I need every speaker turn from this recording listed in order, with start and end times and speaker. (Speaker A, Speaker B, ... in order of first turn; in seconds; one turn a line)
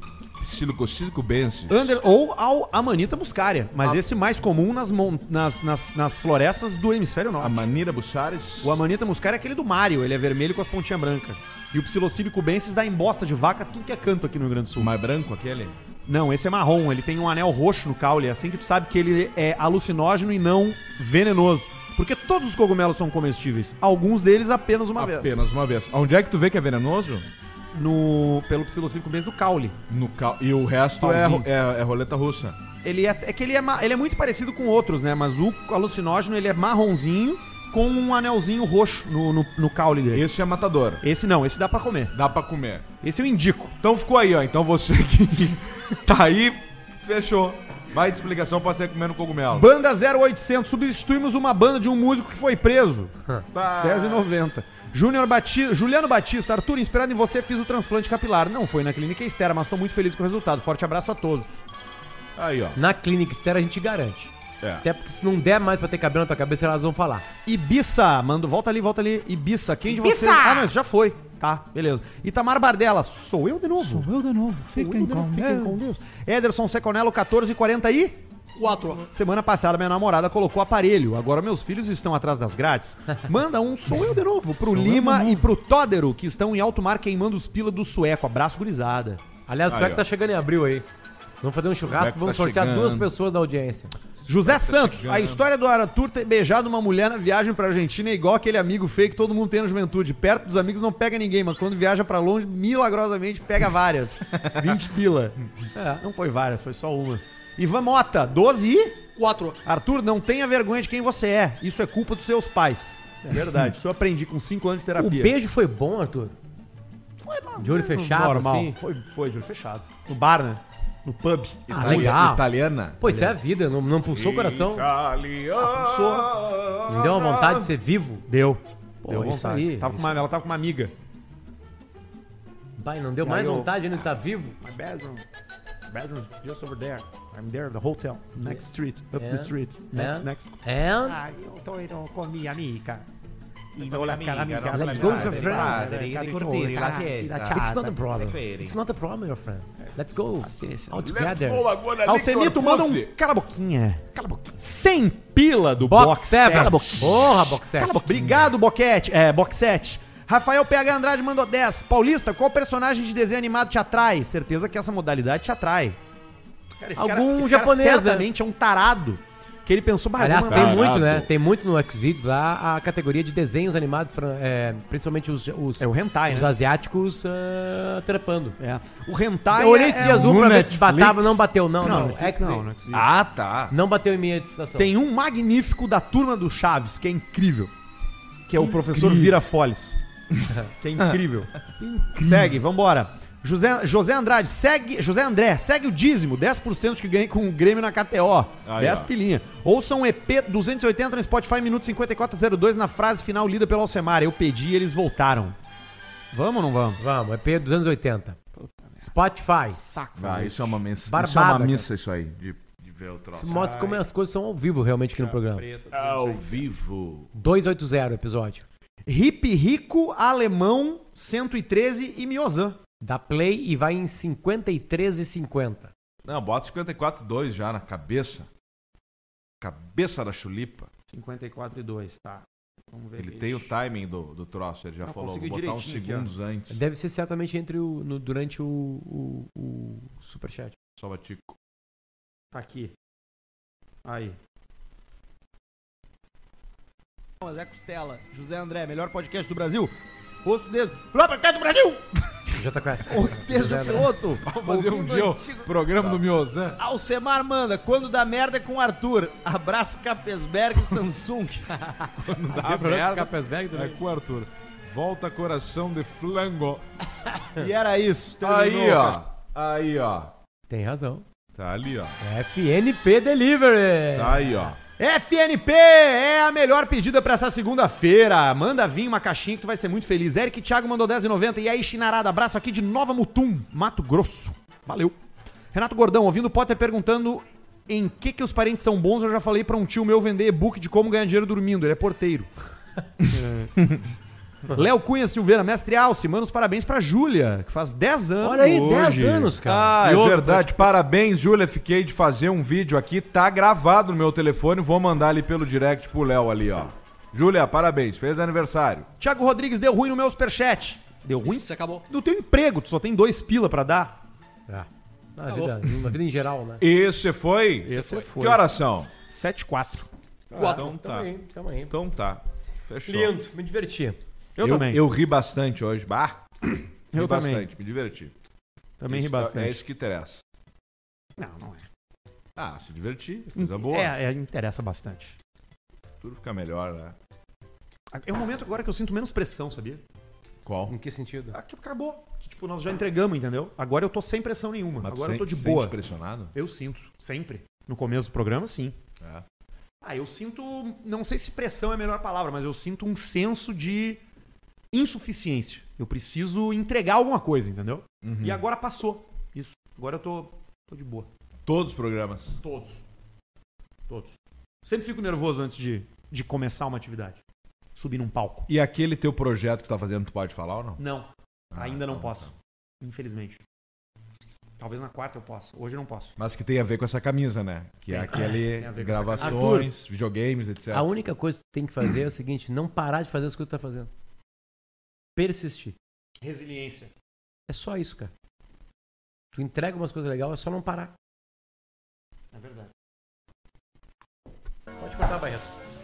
Speaker A: 0.4-2.0
Speaker B: 1.7-7.7
Speaker A: 7.4-8.8
Speaker B: 8.6-14.9
Speaker A: 14.8-15.7
Speaker B: 16.1-25.4
Speaker A: 24.9-27.3
Speaker B: 27.7-29.8
Speaker A: 29.9-32.6
Speaker B: 31.0-31.5
Speaker B: 32.8-40.2
Speaker A: 40.1-41.0
Speaker B: 41.0-42.1
Speaker A: 42.1-42.9
Speaker B: 43.0-43.8
Speaker A: 43.8-49.7
Speaker B: 49.5-53.1
Speaker A: 53.5-54.3
Speaker B: 53.8-61.6
Speaker A: 62.4-62.8
Speaker C: 62.7-67.2
Speaker B: 67.5-74.1
Speaker A: 70.0-70.7
Speaker A: 73.8-75.8
Speaker B: 74.7-89.2
Speaker A: 84.7-85.4
Speaker C: 89.5-90.8
Speaker A: 89.7-90.0
Speaker C: 91.4-93.9
Speaker A: 91.9-93.1
Speaker B: 94.2-105.4
Speaker A: 94.4-95.4
Speaker C: 105.7-106.0
Speaker B: 106.0-115.3
Speaker C: 113.2-113.6
Speaker C: 115.0-116.3
Speaker B: 117.2-122.2
Speaker C: 117.6-118.8
Speaker A: 121.7-123.0
Speaker C: 121.7-122.5
Speaker C: 123.0-124.9
Speaker B: 123.0-123.3
Speaker A: 124.1-127.7
Speaker B: 125.6-126.3
Speaker C: 126.9-128.2
Speaker B: 128.3-130.9
Speaker C: 129.0-130.2
Speaker C: 132.8-134.6
Speaker B: 133.2-134.0
Speaker B: 134.6-135.2
Speaker B: 135.9-143.1
Speaker C: 139.1-141.2
Speaker B: 143.7-148.4
Speaker A: 143.9-147.4
Speaker C: 144.7-146.0
Speaker C: 147.4-151.7
Speaker A: 148.3-148.7
Speaker B: 150.4-151.1
Speaker A: 151.0-153.1
Speaker B: 152.0-166.0
Speaker C: 155.8-158.2
Speaker B: 166.8-171.0
Speaker C: 166.9-168.2
Speaker C: 170.2-178.6
Speaker A: 170.5-171.3
Speaker B: 175.8-176.5
Speaker B: 178.6-180.4
Speaker C: 179.5-182.6
Speaker A: 179.9-181.4
Speaker B: 181.8-183.1
Speaker A: 182.9-183.7
Speaker C: 183.7-184.9
Speaker B: 184.8-187.7
Speaker B: 188.5-190.0
Speaker C: 188.6-189.3
Speaker B: 190.8-191.6
Speaker C: 191.8-192.6
Speaker B: 192.2-205.6
Speaker A: 198.6-199.1
Speaker B: 206.3-207.0
Speaker C: 207.0-208.4
Speaker B: 208.6-209.1
Speaker C: 209.0-209.8
Speaker B: 209.7-210.8
Speaker A: 210.2-213.7
Speaker C: 211.1-211.8
Speaker C: 213.3-215.7
Speaker B: 213.5-214.0
Speaker B: 215.1-216.7
Speaker A: 215.9-217.3
Speaker C: 217.3-218.6
Speaker B: 219.1-222.8
Speaker C: 223.0-225.9
Speaker A: 226.2-228.5
Speaker A: 229.6-230.9
Speaker B: 231.1-233.7
Speaker A: 233.2-236.8
Speaker B: 235.0-236.3
Speaker C: 236.7-240.8
Speaker A: 241.0-241.6
Speaker B: 242.5-242.9
Speaker B: 244.0-244.4
Speaker B: 247.4-249.9
Speaker B: 250.4-252.5
Speaker C: 252.5-254.1
Speaker B: 253.1-256.2
Speaker A: 254.4-256.8
Speaker B: 256.8-261.7
Speaker A: 261.7-266.9
Speaker C: 262.5-264.0
Speaker B: 267.5-269.2
Speaker A: 268.4-270.3
Speaker C: 270.7-271.2
Speaker A: 271.5-272.2
Speaker C: 272.2-274.7
Speaker A: 274.1-274.8
Speaker B: 275.0-285.1
Speaker B: 285.7-292.5
Speaker B: 293.2-293.8
Speaker B: 294.6-299.6
Speaker C: 298.4-300.8
Speaker A: 299.6-309.1
Speaker B: 309.2-314.2
Speaker C: 314.7-316.8
Speaker A: 316.8-319.1
Speaker B: 317.8-318.6
Speaker B: 319.3-320.8
Speaker C: 320.5-321.9
Speaker A: 320.6-321.3
Speaker A: 321.9-323.4
Speaker C: 323.1-324.2
Speaker B: 324.6-325.0
Speaker A: 324.6-328.3
Speaker B: 327.1-327.7
Speaker B: 329.0-329.8
Speaker A: 329.1-330.4
Speaker B: 331.4-331.8
Speaker A: 332.6-334.1
Speaker B: 333.5-335.4
Speaker A: 336.2-337.1
Speaker B: 338.1-340.0
Speaker A: 340.6-340.9
Speaker C: 340.9-341.6
Speaker B: 341.5-345.9
Speaker A: 345.0-346.5
Speaker B: 346.5-348.9
Speaker B: 350.0-354.2
Speaker B: 354.9-361.3
Speaker A: 358.2-358.6
Speaker A: 361.6-362.6
Speaker B: 362.6-363.0
Speaker B: 364.1-367.4
Speaker B: 367.9-368.7
Speaker A: 368.7-371.0
Speaker B: 371.0-373.6
Speaker A: 371.7-372.5
Speaker B: 374.8-376.3
Speaker A: 376.4-381.1
Speaker C: 378.1-378.6
Speaker B: 378.8-379.8
Speaker C: 379.4-379.9
Speaker C: 380.9-384.1
Speaker C: 385.4-385.9
Speaker B: 386.4-387.1
Speaker C: 387.7-388.3
Speaker C: 389.5-391.1
Speaker B: 392.5-392.9
Speaker C: 395.0-395.7